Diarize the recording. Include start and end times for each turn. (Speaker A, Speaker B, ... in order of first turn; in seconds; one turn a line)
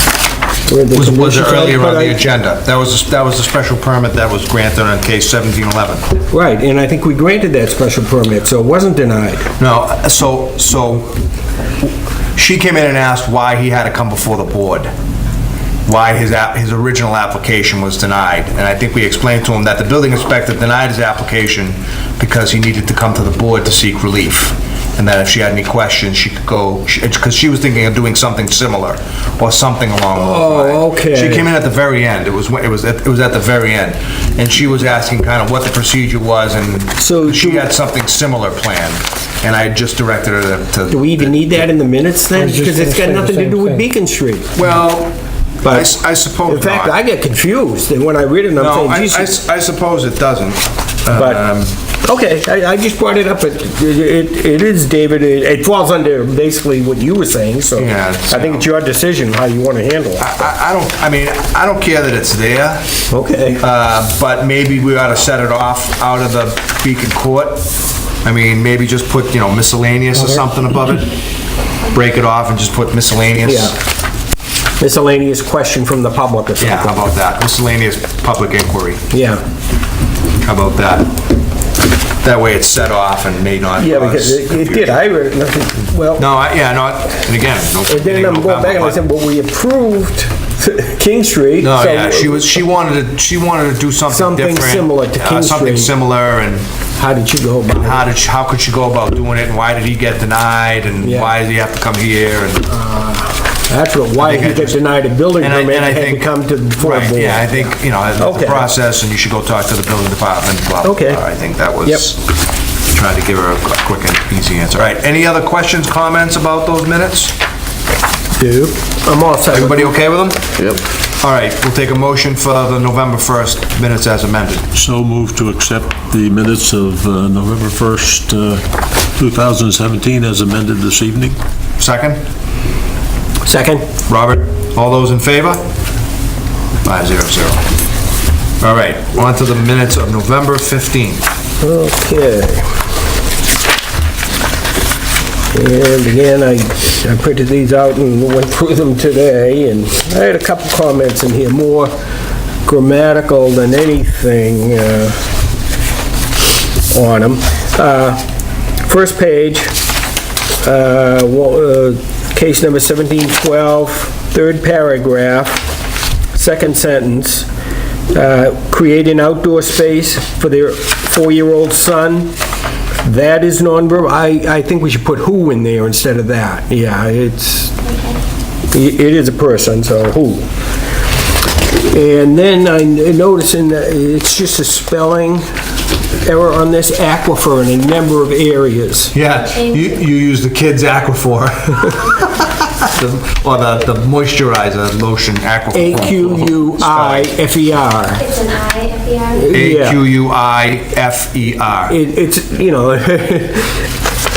Speaker A: 0.7-2.2
Speaker B: 0.9-6.0
Speaker A: 6.3-9.5
Speaker B: 9.6-11.1
Speaker B: 12.3-14.9
Speaker B: 15.8-41.6
Speaker A: 30.1-31.5
Speaker A: 37.0-37.7
Speaker A: 40.9-44.5
Speaker C: 42.4-43.8
Speaker B: 44.5-45.1
Speaker A: 45.6-49.4
Speaker B: 45.6-47.0
Speaker B: 48.5-51.7
Speaker A: 51.1-51.5
Speaker A: 52.0-60.4
Speaker B: 57.7-58.7
Speaker B: 60.2-62.8
Speaker A: 63.1-63.6
Speaker B: 63.6-67.7
Speaker B: 68.2-71.1
Speaker B: 71.9-73.7
Speaker A: 73.4-73.8
Speaker A: 74.8-77.1
Speaker B: 76.6-79.0
Speaker A: 79.1-79.4
Speaker B: 80.4-81.2
Speaker B: 82.2-85.0
Speaker A: 83.8-86.3
Speaker B: 86.2-89.0
Speaker A: 87.9-92.6
Speaker B: 91.6-96.6
Speaker A: 94.1-95.9
Speaker A: 97.0-98.1
Speaker B: 97.7-102.7
Speaker A: 101.0-101.4
Speaker A: 102.7-108.7
Speaker B: 104.2-104.8
Speaker B: 105.4-112.2
Speaker A: 110.8-111.2
Speaker A: 111.8-112.1
Speaker B: 112.9-117.3
Speaker A: 118.3-120.0
Speaker B: 119.5-124.6
Speaker C: 124.7-128.6
Speaker C: 129.2-131.4
Speaker B: 131.8-132.2
Speaker A: 133.4-133.8
Speaker B: 134.1-135.6
Speaker B: 136.8-137.6
Speaker B: 138.6-141.2
Speaker A: 141.6-142.7
Speaker A: 145.5-151.9
Speaker A: 152.6-155.2
Speaker A: 156.9-158.2
Speaker A: 158.8-159.8
Speaker A: 160.6-165.7
Speaker A: 166.3-167.5
Speaker A: 168.1-172.3
Speaker A: 173.0-177.8
Speaker D: 177.8-178.2
Speaker A: 178.7-180.4
Speaker A: 181.9-185.4
Speaker A: 186.2-189.2
Speaker B: 189.1-197.3
Speaker D: 189.2-190.1
Speaker D: 192.0-192.3
Speaker A: 195.7-198.2
Speaker D: 198.1-199.5
Speaker A: 199.3-200.0
Speaker B: 199.5-202.0
Speaker A: 201.9-203.8